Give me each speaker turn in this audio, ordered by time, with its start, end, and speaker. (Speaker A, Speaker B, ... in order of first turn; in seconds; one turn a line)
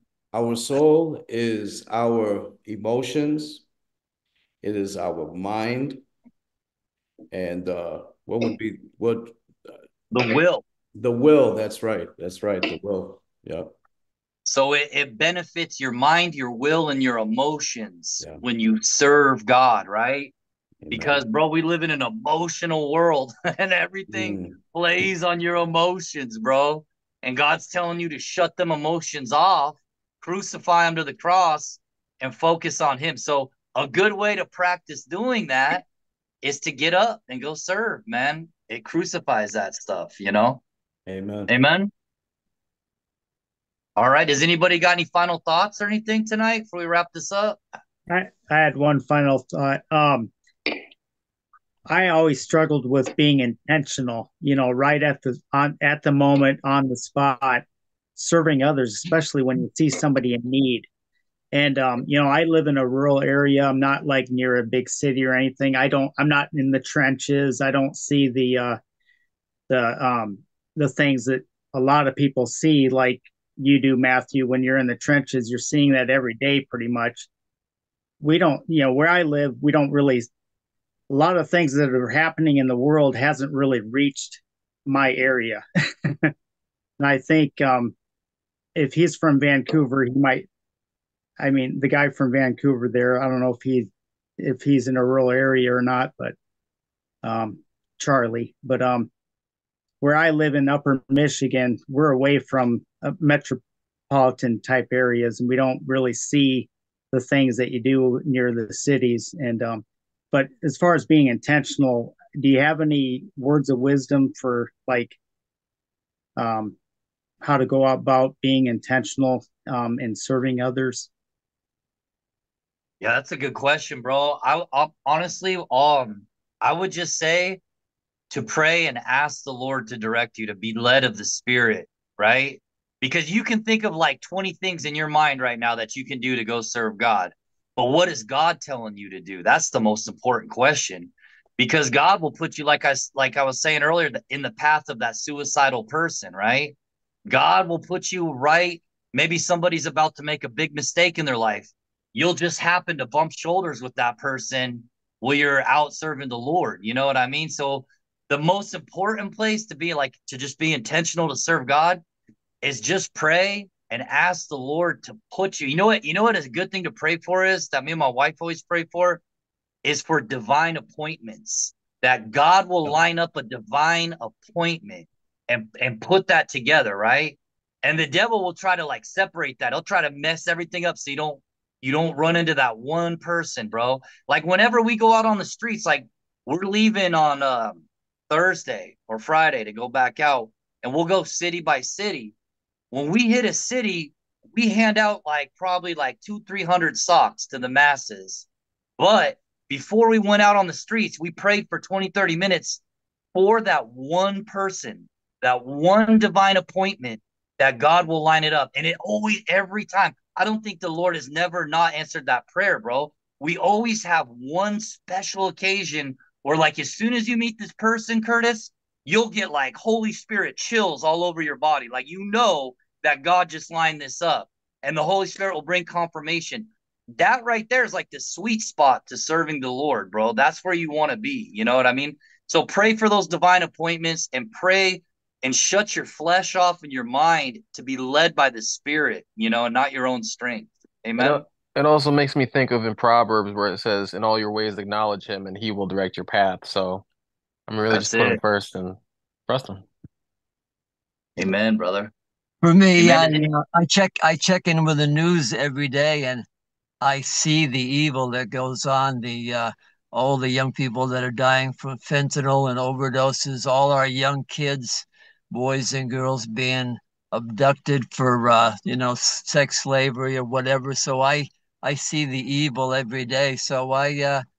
Speaker A: 0.3-3.6
Speaker A: 4.6-6.0
Speaker A: 7.3-9.4
Speaker B: 10.1-10.6
Speaker A: 10.9-13.7
Speaker B: 14.4-20.3
Speaker A: 20.8-21.3
Speaker B: 20.9-35.9
Speaker A: 24.1-24.6
Speaker B: 36.4-40.6
Speaker A: 41.1-41.5
Speaker B: 41.5-41.9
Speaker B: 44.0-47.6
Speaker C: 48.1-50.3
Speaker C: 51.9-57.6
Speaker C: 58.2-60.9
Speaker C: 61.5-68.8
Speaker C: 69.7-77.3
Speaker C: 78.2-80.3
Speaker C: 81.1-86.3
Speaker C: 87.0-87.9
Speaker C: 88.8-90.5
Speaker C: 91.4-96.3
Speaker C: 97.2-99.1
Speaker C: 100.0-115.2
Speaker C: 116.4-116.8
Speaker C: 117.4-121.1
Speaker B: 123.0-127.6
Speaker B: 128.3-146.8
Speaker B: 147.3-162.0
Speaker B: 162.6-169.2
Speaker B: 169.8-192.3
Speaker B: 192.9-198.5
Speaker B: 199.0-202.8
Speaker B: 203.3-241.4
Speaker D: 241.2-247.1
Speaker D: 247.7-249.8
Speaker B: 247.9-248.4
Speaker B: 251.4-252.1
Speaker E: 252.6-256.4
Speaker B: 253.0-253.5
Speaker E: 257.0-274.4